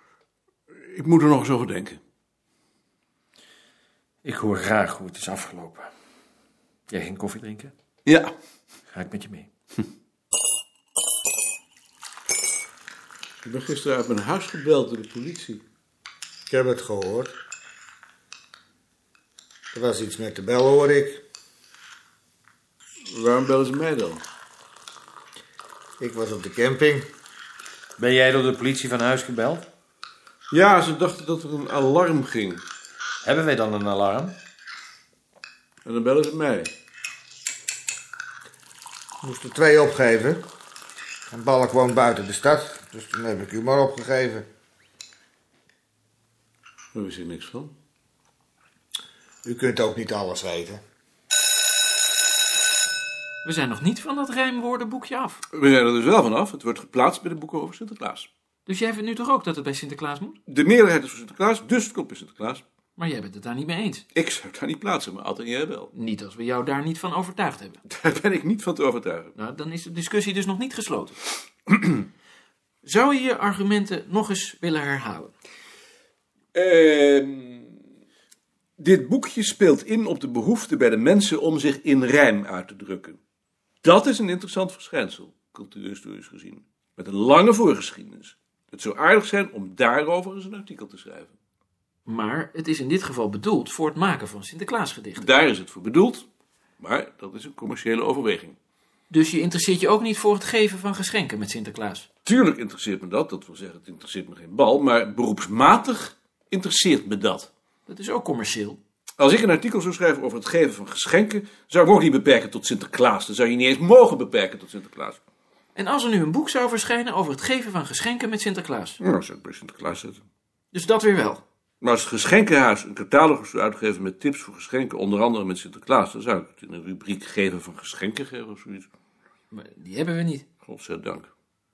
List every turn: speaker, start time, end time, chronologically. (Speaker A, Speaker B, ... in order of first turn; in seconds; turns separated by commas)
Speaker A: 0.9-2.0, Speaker B: 4.2-5.9, Speaker B: 6.9-7.7, Speaker A: 8.0-8.3, Speaker B: 8.9-9.5, Speaker A: 13.4-15.6, Speaker C: 16.5-17.3, Speaker C: 19.7-21.2, Speaker A: 23.1-24.2, Speaker C: 26.0-27.1, Speaker B: 28.0-29.7, Speaker A: 30.5-32.6, Speaker B: 33.2-34.4, Speaker A: 35.8-36.7, Speaker C: 39.2-40.4, Speaker C: 41.3-44.5, Speaker A: 46.9-47.7, Speaker C: 49.4-50.8, Speaker D: 53.4-55.4, Speaker A: 55.5-58.3, Speaker D: 58.6-60.4, Speaker A: 60.5-62.6, Speaker D: 63.0-64.0, Speaker A: 64.1-65.9, Speaker D: 65.9-67.8, Speaker A: 67.9-69.3, Speaker D: 69.4-71.2, Speaker D: 72.8-75.3, Speaker A: 76.5-77.8, Speaker A: 78.8-83.2, Speaker A: 83.8-91.3, Speaker D: 92.0-95.2, Speaker A: 95.2-96.2, Speaker A: 96.8-98.6, Speaker D: 99.1-102.1, Speaker A: 102.2-107.5, Speaker D: 107.9-108.8, Speaker A: 109.2-115.2, Speaker D: 115.7-119.0, Speaker A: 119.0-120.2, Speaker D: 120.7-121.4, Speaker A: 121.8-128.9, Speaker D: 129.5-130.4, Speaker A: 130.6-131.3